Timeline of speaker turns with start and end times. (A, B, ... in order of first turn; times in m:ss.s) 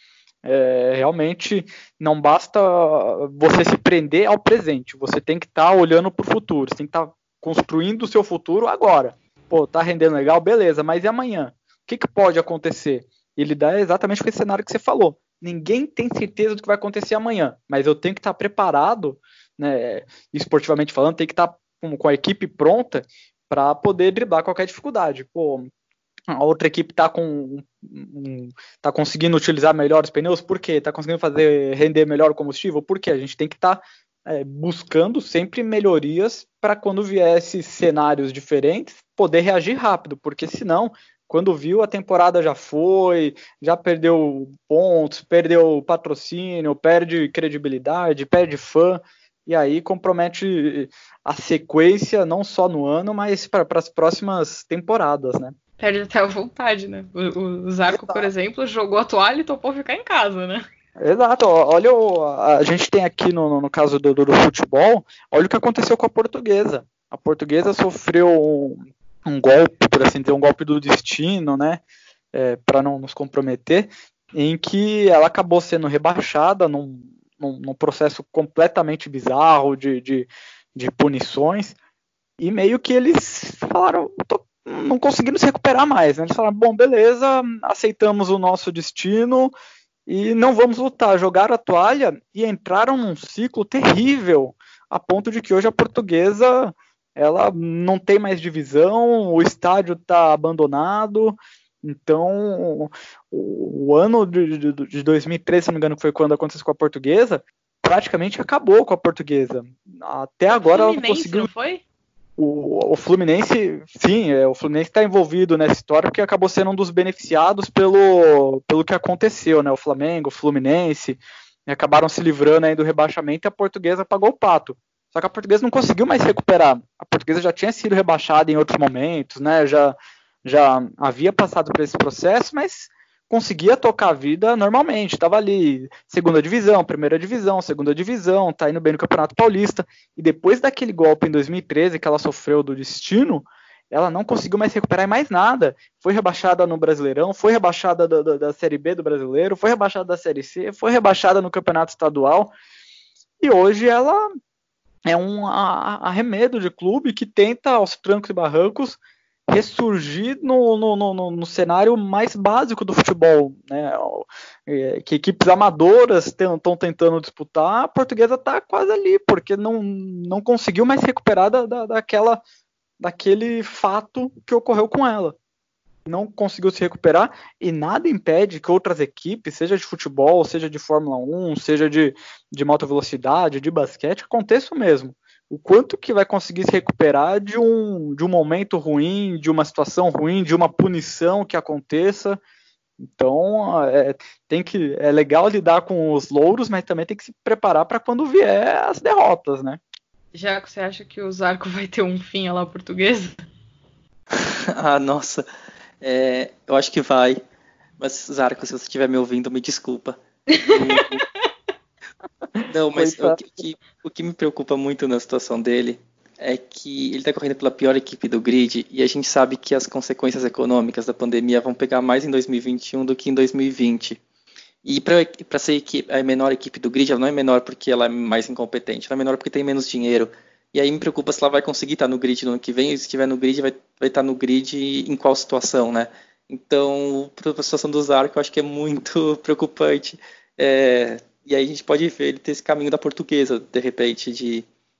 0:00.4-0:25.7 A
0:26.3-0:55.5 A
0:55.8-1:00.6 B
0:57.9-0:58.3 A
1:01.0-1:11.8 A
1:12.3-1:21.8 A
1:22.4-1:29.5 A
1:30.1-1:51.5 A
1:50.5-1:51.8 B
1:52.4-2:32.5 A
2:33.4-2:34.2 A
2:35.1-2:39.0 A
2:39.5-2:52.4 A
2:53.0-2:55.4 A
2:56.0-3:12.4 A
3:13.0-3:19.8 A
3:20.3-3:23.3 B
3:24.3-3:25.4 C
3:26.0-3:27.4 C
3:28.0-3:31.2 C
3:30.5-3:31.0 B
3:32.7-3:44.2 C
3:32.9-3:33.4 A
3:44.8-4:04.6 C